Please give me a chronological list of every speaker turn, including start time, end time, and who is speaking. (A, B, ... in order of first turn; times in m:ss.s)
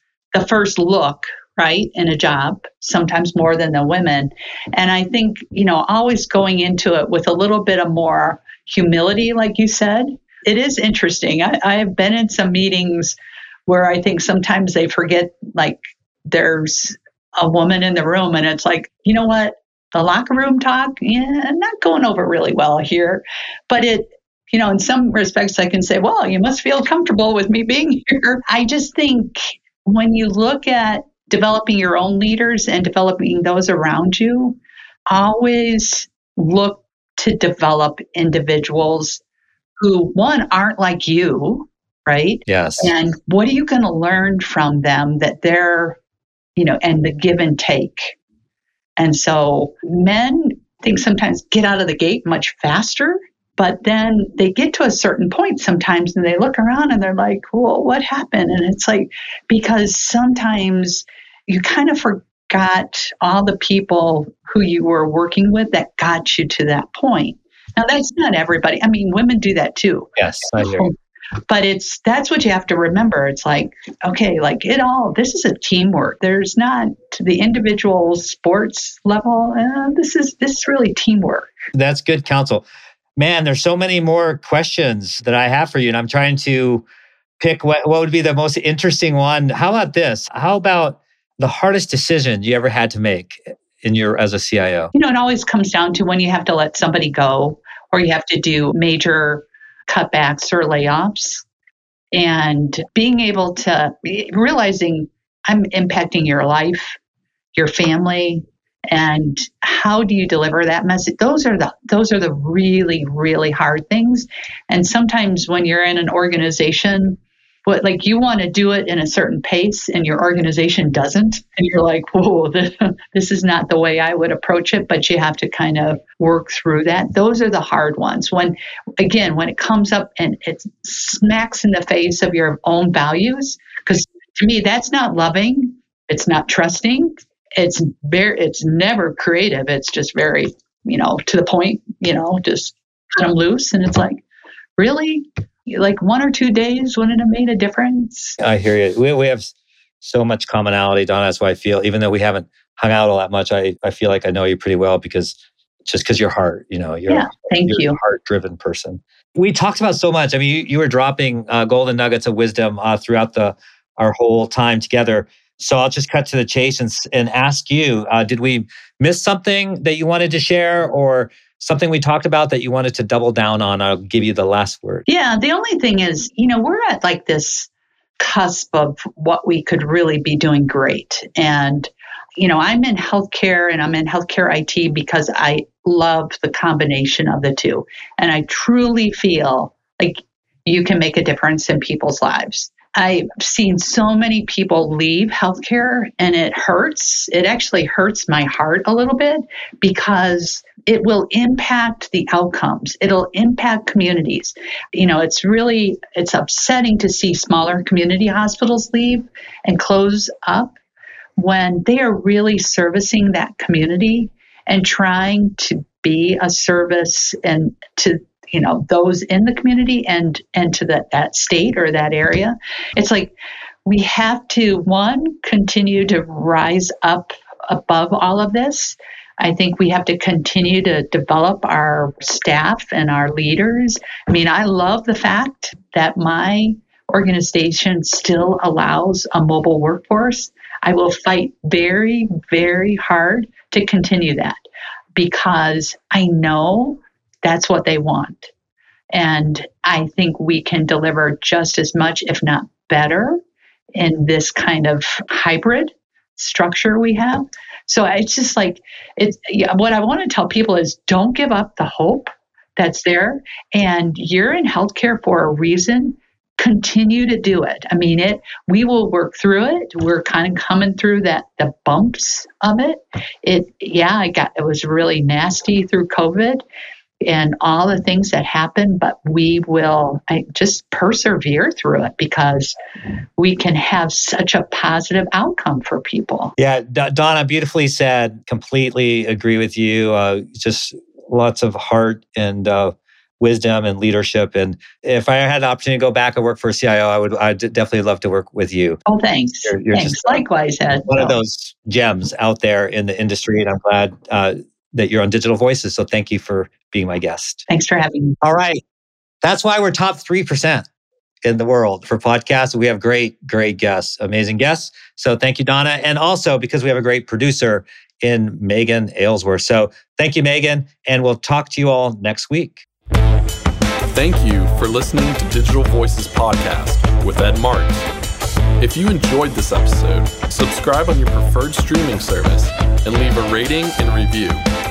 0:00.3-0:34.6 A
0:35.1-0:39.2 A
0:39.8-0:46.0 A
0:42.5-0:42.9 B
0:46.6-0:48.2 A
0:49.0-1:10.9 A
1:10.2-1:10.9 B
1:11.5-1:21.5 A
1:21.7-1:22.6 B
1:23.2-1:26.8 B
1:27.4-1:34.9 B
1:34.9-1:41.4 A
1:42.1-1:47.0 A
1:47.6-2:24.2 A
2:24.8-2:28.4 A
2:28.4-2:55.1 B
2:37.1-2:38.0 A
2:55.1-3:30.8 A
3:31.4-3:43.3 A
3:43.9-4:04.6 A
4:05.2-4:08.5 A
4:09.1-4:13.4 A
4:14.0-4:36.6 A
4:37.2-4:42.8 A
4:43.4-4:46.6 A
4:46.6-4:59.0 B
4:59.1-5:01.4 A
4:59.6-5:00.4 B
5:01.1-5:07.7 B
5:07.7-5:08.4 A
5:08.4-5:08.8 B
5:09.4-5:10.9 B
5:11.4-5:22.8 B
5:24.1-5:28.1 C
5:28.8-5:34.6 C